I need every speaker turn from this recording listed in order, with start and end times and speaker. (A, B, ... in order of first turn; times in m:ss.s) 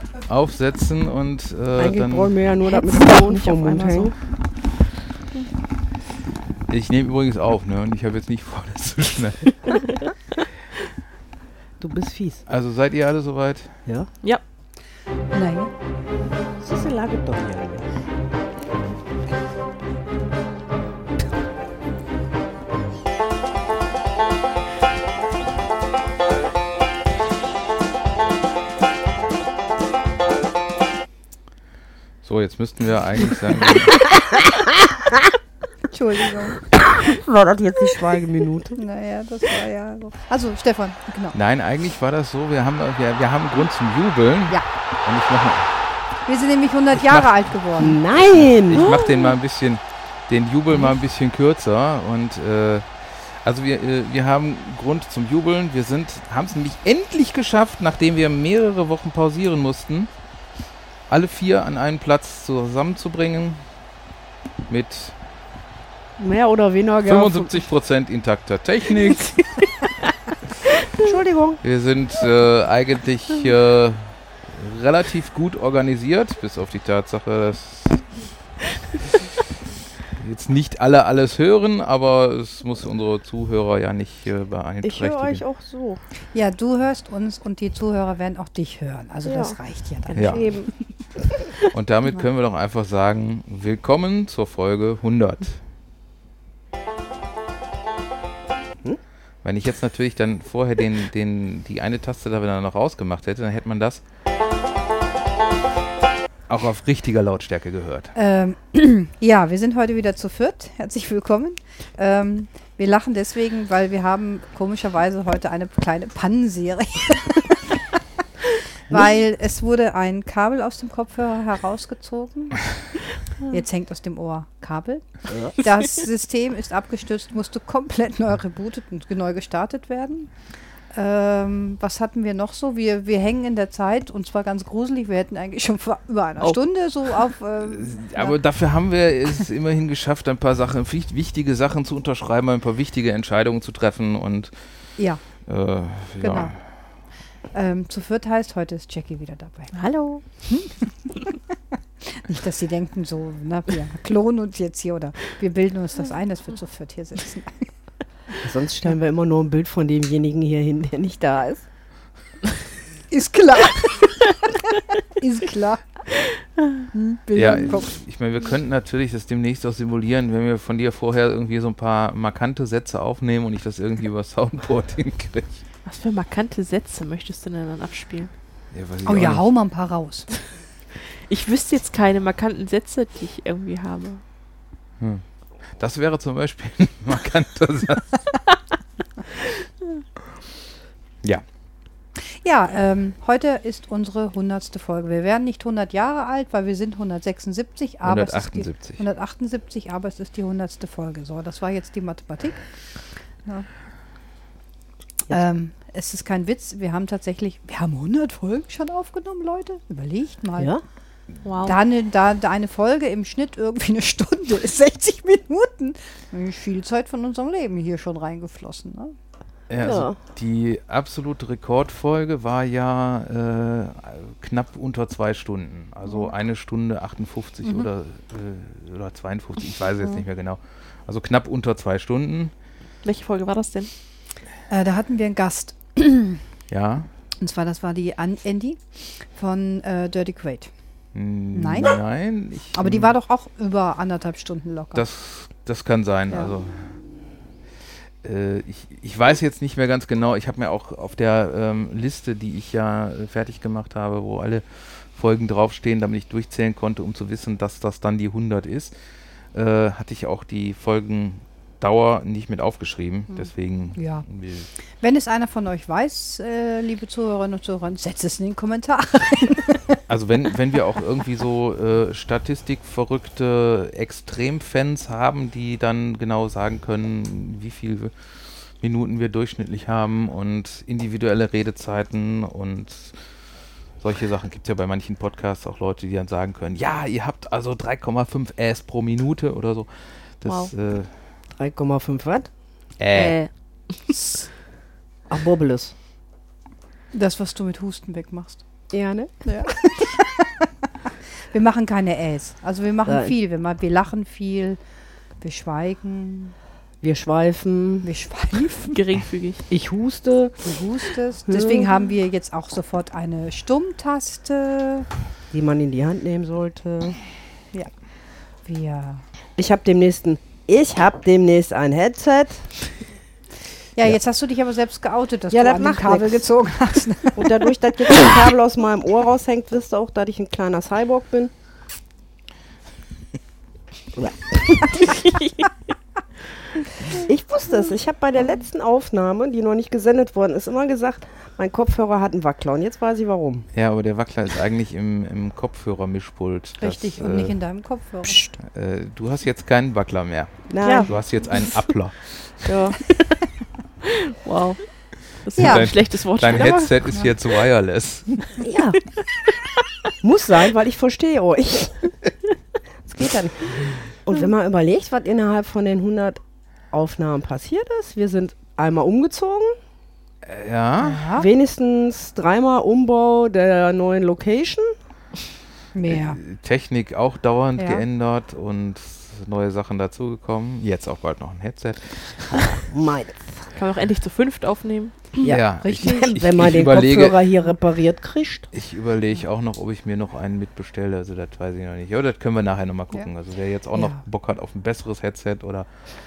0:00.1-0:02.3 A
0:01.8-0:04.1 B
0:02.6-0:04.2 C
0:06.7-0:09.8 A
0:11.8-0:12.4 B
0:12.5-0:13.7 A
0:15.3-0:15.7 D
0:16.6-0:17.9 B
0:32.2-0:34.1 A
0:34.1-0:34.5 B
0:35.9-0:36.6 D
0:36.8-0:38.8 B
0:38.8-0:41.4 D
0:41.3-0:45.8 A
0:46.3-0:48.0 D
0:46.9-0:47.5 A
0:47.8-0:49.0 B
0:48.3-1:00.1 A
0:48.8-0:49.4 C
1:01.1-1:03.6 A
1:04.7-1:05.2 A
1:06.2-1:07.6 B
1:07.0-1:09.5 A
1:10.9-1:11.6 B
1:11.6-1:18.0 A
1:20.1-1:25.4 A
1:24.8-1:26.0 B
1:26.3-1:30.5 D
1:29.3-1:31.5 B
1:30.1-1:30.5 A
1:31.7-1:35.6 A
1:39.4-1:44.0 A
1:46.5-1:48.1 A
1:48.2-1:57.8 D
1:58.9-2:02.7 D
2:03.5-2:10.3 D
2:10.9-2:18.4 D
2:17.7-2:24.5 A
2:25.4-2:26.6 A
2:26.2-2:26.6 D
2:27.5-2:29.7 D
2:29.7-2:30.2 C
2:30.5-2:31.2 D
2:32.0-2:37.7 D
2:38.4-2:41.6 B
2:43.1-2:45.8 D
2:46.9-2:47.9 D
2:47.3-2:55.6 A
2:55.9-2:58.3 C
2:58.7-2:59.4 A
2:59.1-3:00.3 D
3:01.3-3:04.2 C
3:05.8-3:08.4 A
3:12.2-3:22.6 D
3:18.0-3:19.0 A
3:25.3-3:30.7 D
3:31.4-3:31.8 C
3:31.6-3:39.1 D
3:39.7-3:52.5 A
3:39.8-3:40.2 B
3:53.0-3:53.9 C
3:54.7-3:56.4 D
3:56.7-3:57.1 A
3:57.4-4:00.7 D
4:01.2-4:03.1 A
4:01.5-4:02.0 D
4:02.7-4:05.0 D
4:05.0-4:07.0 A
4:08.2-4:19.0 A
4:19.5-4:24.7 A
4:23.3-4:24.2 D
4:25.0-4:30.0 D
4:30.1-4:38.1 A
4:38.8-4:43.2 A
4:44.0-4:51.1 A
4:50.4-4:50.7 C
4:51.6-4:52.5 B
4:53.0-4:53.4 A
4:53.1-4:53.5 C
4:55.3-4:55.9 B
4:57.1-4:58.6 D
4:58.9-4:59.5 B
4:59.4-5:00.7 D
5:01.5-5:04.8 D
5:03.1-5:03.3 B
5:05.4-5:06.5 D
5:07.0-5:08.1 B
5:08.0-5:09.0 D
5:08.9-5:09.7 C
5:09.7-5:10.8 B
5:10.6-5:15.1 D
5:11.5-5:11.9 B
5:15.5-5:17.2 B
5:18.6-5:19.2 D
5:19.6-5:22.7 B
5:24.0-5:27.7 D
5:25.5-5:26.4 B
5:27.4-5:31.5 B
5:34.2-5:35.2 B
5:37.0-5:43.7 B
5:43.7-5:47.6 A
5:46.8-5:48.5 D
5:48.6-5:52.7 A
5:50.7-5:51.1 B
5:50.8-5:51.1 C
5:52.6-5:53.0 B
5:54.0-5:54.8 C
5:55.4-5:57.0 C
5:55.5-5:58.5 A
5:55.6-5:55.9 D
5:56.5-5:56.8 B
5:58.6-5:59.0 B
6:00.2-6:02.1 B
6:03.0-6:06.4 B
6:06.9-6:09.8 B
6:10.4-6:11.3 A
6:11.0-6:11.5 D
6:11.4-6:14.9 B
6:15.9-6:16.4 D
6:16.1-6:22.7 A
6:17.8-6:18.0 D
6:22.7-6:23.7 B
6:23.7-6:25.4 C
6:25.4-6:28.7 B
6:25.4-6:27.4 A
6:25.8-6:26.4 D
6:28.7-6:35.9 A
6:34.0-6:34.2 D